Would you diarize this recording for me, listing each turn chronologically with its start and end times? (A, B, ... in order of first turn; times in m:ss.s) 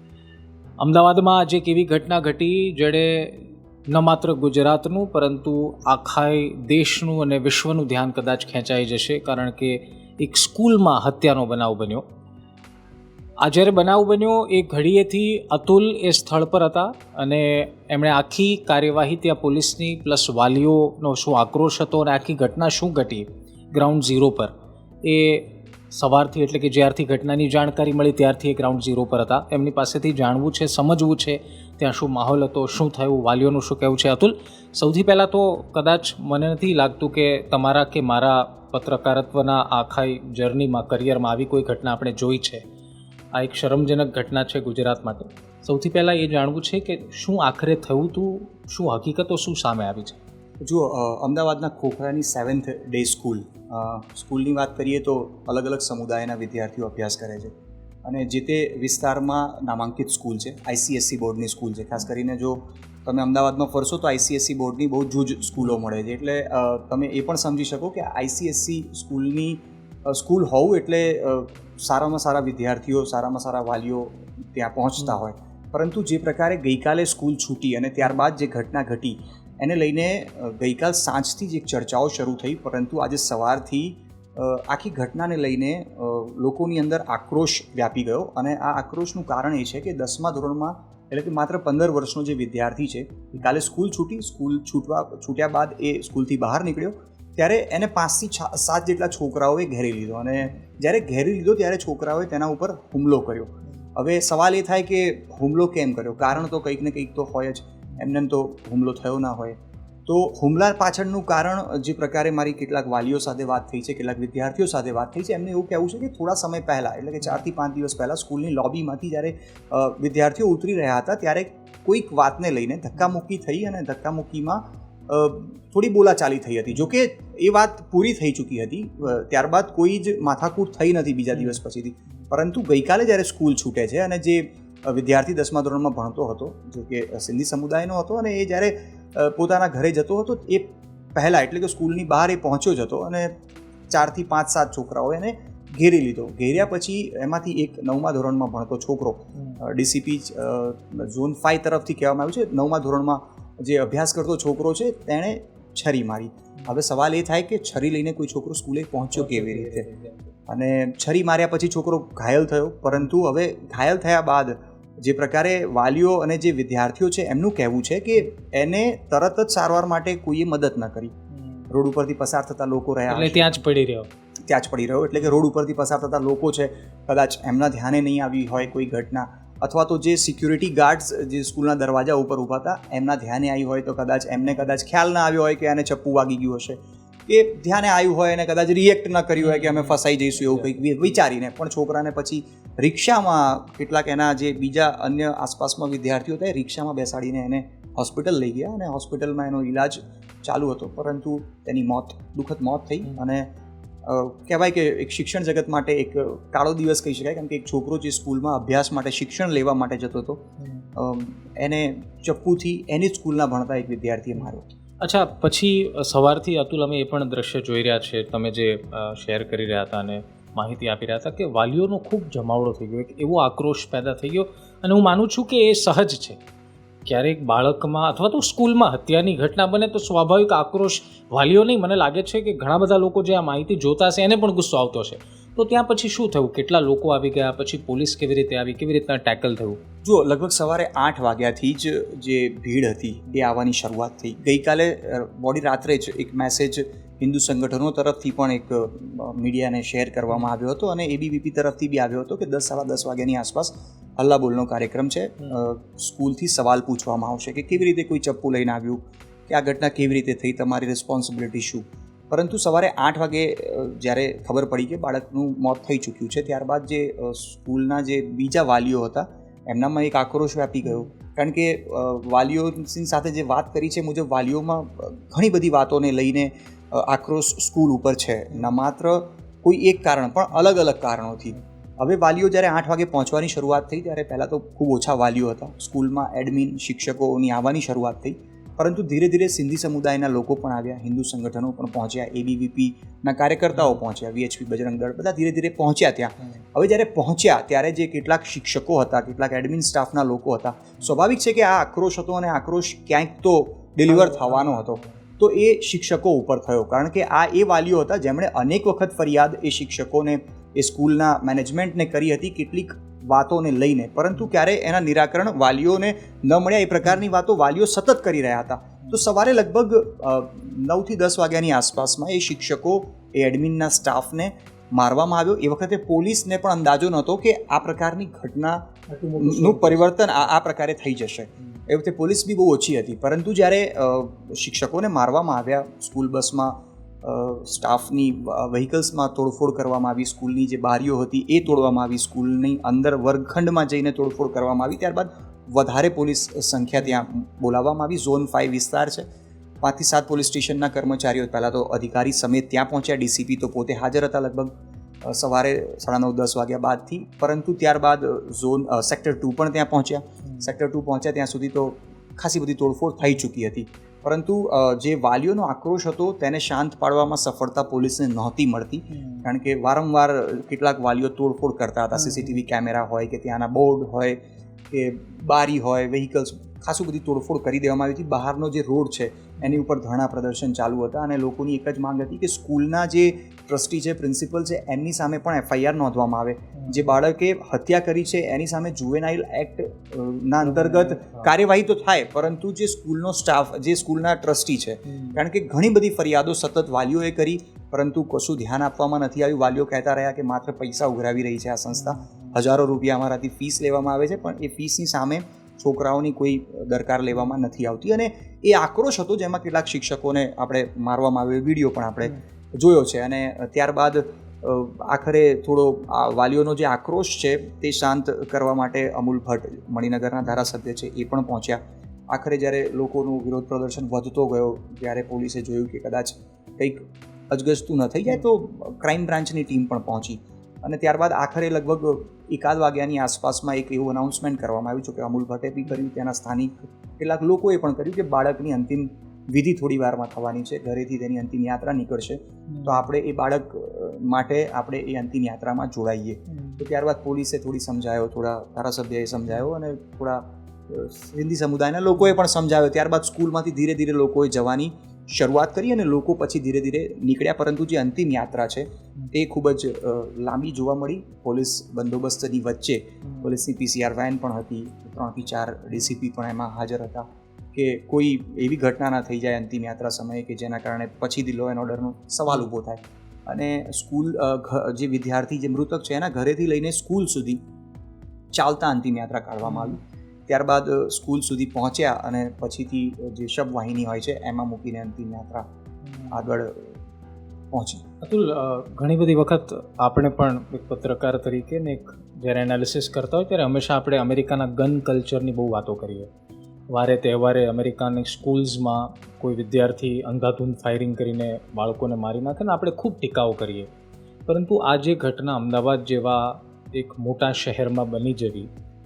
0:00.8-0:12.0 A
0:13.4-0:24.5 A
0:25.0-0:42.6 A
0:43.3-0:50.2 A
0:50.6-2:23.3 B
2:23.9-2:39.9 B
2:39.1-2:40.3 A
2:40.5-2:51.1 B
2:51.4-2:51.7 A
2:51.7-2:53.5 B
2:53.1-2:54.1 A
2:54.4-3:23.5 B
3:09.4-3:10.7 A
3:24.0-3:30.4 B
3:30.6-3:30.8 A
3:31.0-3:34.7 B
3:35.0-3:46.4 A
3:47.0-3:59.8 A
4:00.0-5:49.2 B
4:53.7-4:54.0 A
5:04.1-5:05.1 A
5:29.1-5:30.1 A
5:49.8-6:14.4 B
6:00.4-6:00.7 A
6:09.1-6:09.5 A
6:12.2-6:12.6 A
6:14.9-7:57.6 B
6:26.8-6:27.1 A
6:30.6-6:31.5 A
6:35.1-6:35.4 A
6:41.9-6:42.6 A
7:22.7-7:23.1 A
7:26.5-7:26.8 A
7:43.2-7:43.5 A
7:58.5-8:05.6 B
7:59.6-8:00.0 A
8:06.0-8:06.4 A
8:06.3-8:07.0 B
8:07.7-8:08.0 B
8:08.2-8:16.3 A
8:16.9-8:23.9 A
8:24.5-8:28.7 A